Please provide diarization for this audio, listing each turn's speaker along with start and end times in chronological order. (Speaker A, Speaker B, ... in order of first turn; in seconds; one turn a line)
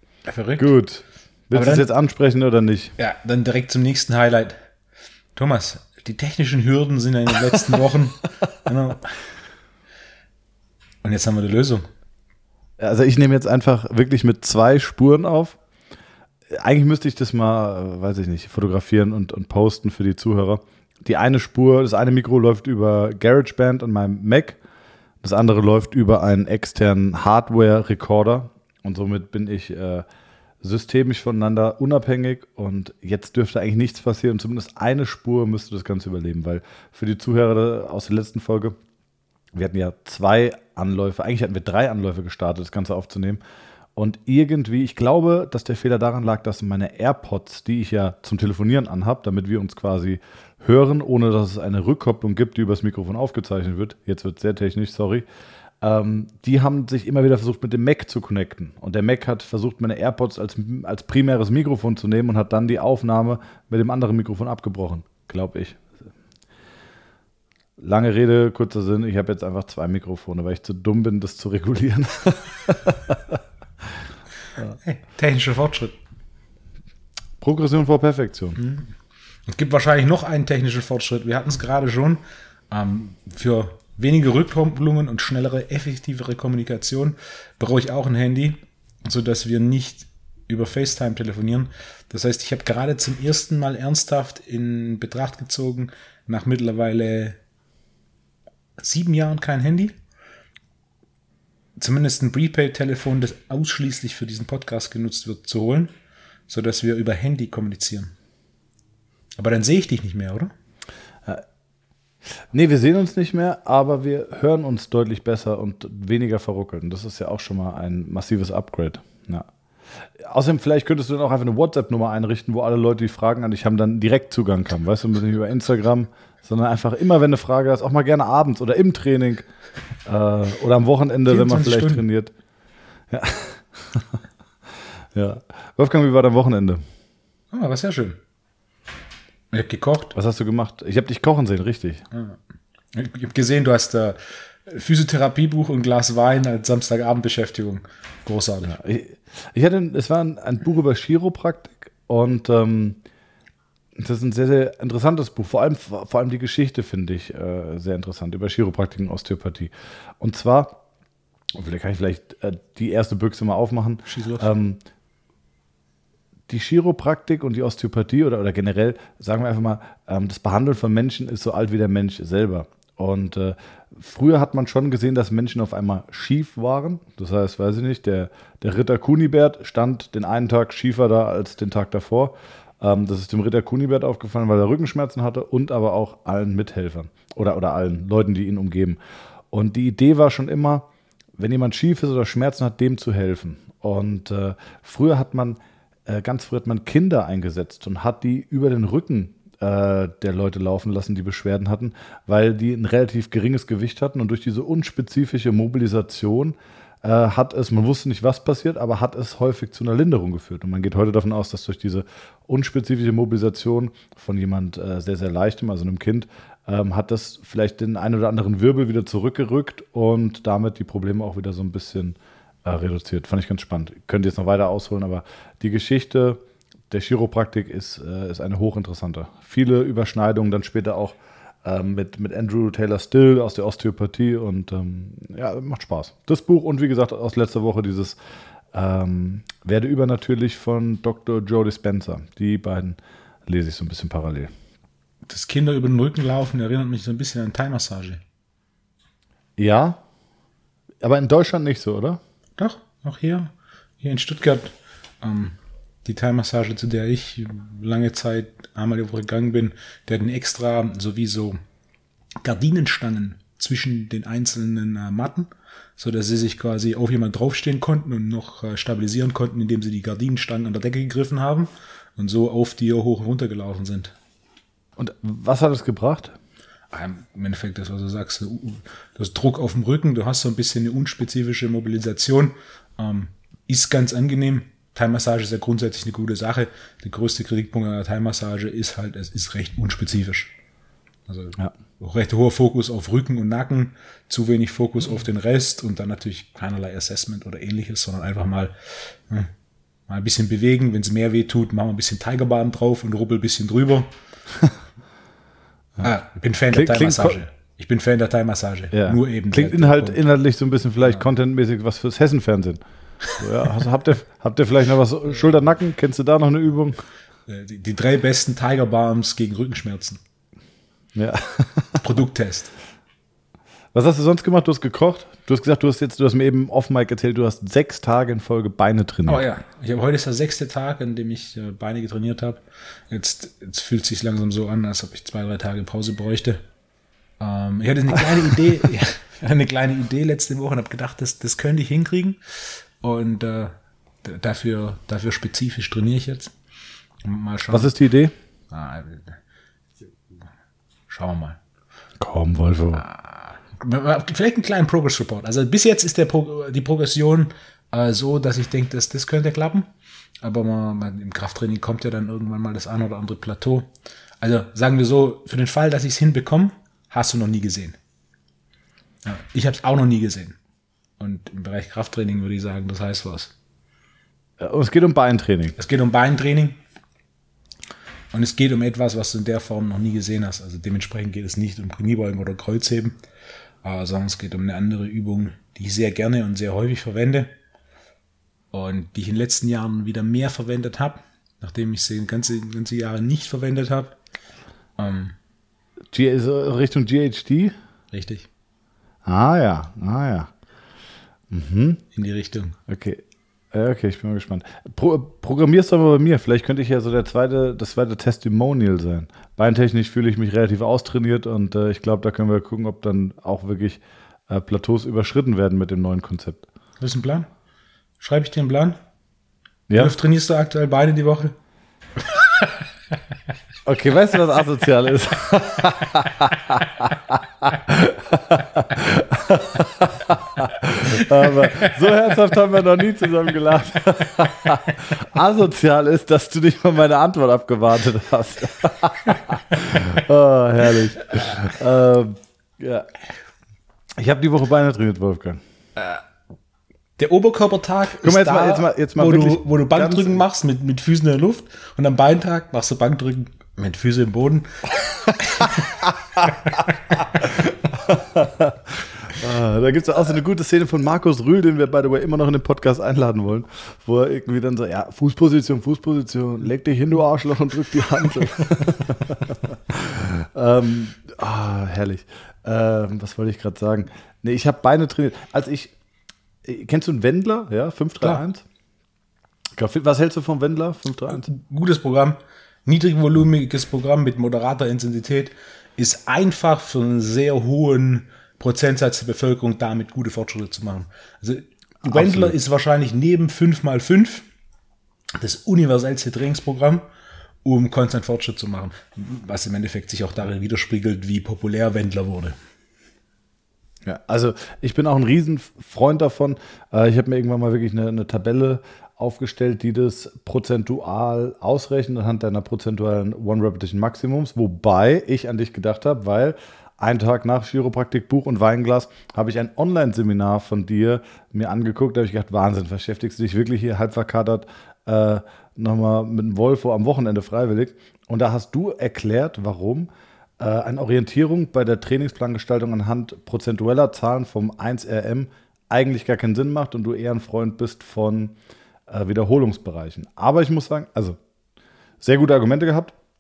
Speaker A: 0.3-0.7
Speaker B: 0.6-2.9
Speaker A: 1.5-1.9
Speaker A: 3.0-4.6
Speaker A: 5.4-9.2
Speaker A: 11.0-11.9
Speaker B: 12.8-15.6
Speaker B: 16.5-24.6
Speaker B: 25.2-30.1
Speaker B: 30.6-38.8
Speaker B: 39.5-43.4
Speaker B: 44.0-55.2
Speaker B: 55.8-66.0
Speaker B: 67.8-73.4
Speaker A: 74.8-76.0
Speaker B: 77.4-78.6
Speaker A: 78.6-78.9
Speaker A: 79.5-97.4
Speaker A: 98.8-100.0
Speaker A: 101.8-105.9
Speaker A: 106.5-108.1
Speaker A: 109.4-110.5
Speaker B: 112.5-119.5
Speaker B: 120.0-129.5
Speaker B: 130.1-132.3
Speaker A: 131.3-132.1
Speaker B: 133.1-134.2
Speaker B: 135.1-136.8
Speaker A: 137.5-138.2
Speaker A: 139.5-140.1
Speaker B: 140.1-142.0
Speaker A: 142.1-142.4
Speaker A: 142.9-148.8
Speaker B: 148.7-153.0
Speaker B: 154.0-160.8
Speaker B: 161.6-164.8
Speaker A: 164.1-164.5
Speaker B: 166.5-189.0
Speaker B: 189.5-190.9
Speaker B: 191.4-226.4
Speaker B: 226.9-238.2
Speaker B: 238.7-244.5
Speaker A: 245.3-248.2
Speaker B: 249.6-250.0
Speaker B: 251.0-252.2
Speaker A: 252.6-261.6
Speaker A: 262.4-274.1
Speaker B: 275.0-276.4
Speaker A: 276.9-290.5
Speaker A: 291.3-299.5
Speaker A: 300.1-304.1
Speaker A: 306.0-310.2
Speaker B: 306.7-307.4
Speaker B: 308.9-317.0
Speaker A: 317.5-320.2
Speaker B: 321.1-322.1
Speaker A: 322.0-322.7
Speaker B: 323.9-329.4
Speaker A: 329.3-336.6
Speaker A: 337.4-346.5
Speaker A: 347.2-347.9
Speaker B: 347.7-348.3
Speaker A: 348.7-349.4
Speaker A: 351.1-351.6
Speaker B: 352.2-353.1
Speaker A: 353.0-359.9
Speaker A: 360.4-363.9
Speaker A: 364.4-368.0
Speaker A: 369.2-370.6
Speaker A: 371.2-373.5
Speaker B: 374.6-375.8
Speaker A: 375.8-376.8
Speaker A: 378.3-383.2
Speaker A: 383.8-387.5
Speaker A: 388.7-394.2
Speaker A: 395.0-395.4
Speaker B: 396.1-397.8
Speaker A: 398.1-398.5
Speaker B: 399.2-400.5
Speaker B: 401.5-402.0
Speaker A: 402.1-402.8
Speaker B: 402.9-416.7
Speaker A: 417.0-417.5
Speaker A: 418.2-419.0
Speaker B: 419.9-420.1
Speaker A: 420.0-421.6
Speaker A: 422.2-422.8
Speaker B: 423.9-443.1
Speaker A: 431.0-432.0
Speaker A: 441.4-441.7
Speaker B: 444.2-445.6
Speaker A: 446.0-446.2
Speaker A: 447.2-457.5
Speaker B: 448.2-450.4
Speaker B: 457.4-475.9
Speaker B: 476.6-478.6
Speaker B: 479.8-481.5
Speaker A: 481.3-494.5
Speaker B: 492.1-492.5
Speaker A: 495.4-497.1
Speaker A: 497.6-502.6
Speaker B: 504.0-538.5
Speaker B: 539.1-541.4
Speaker B: 542.2-543.1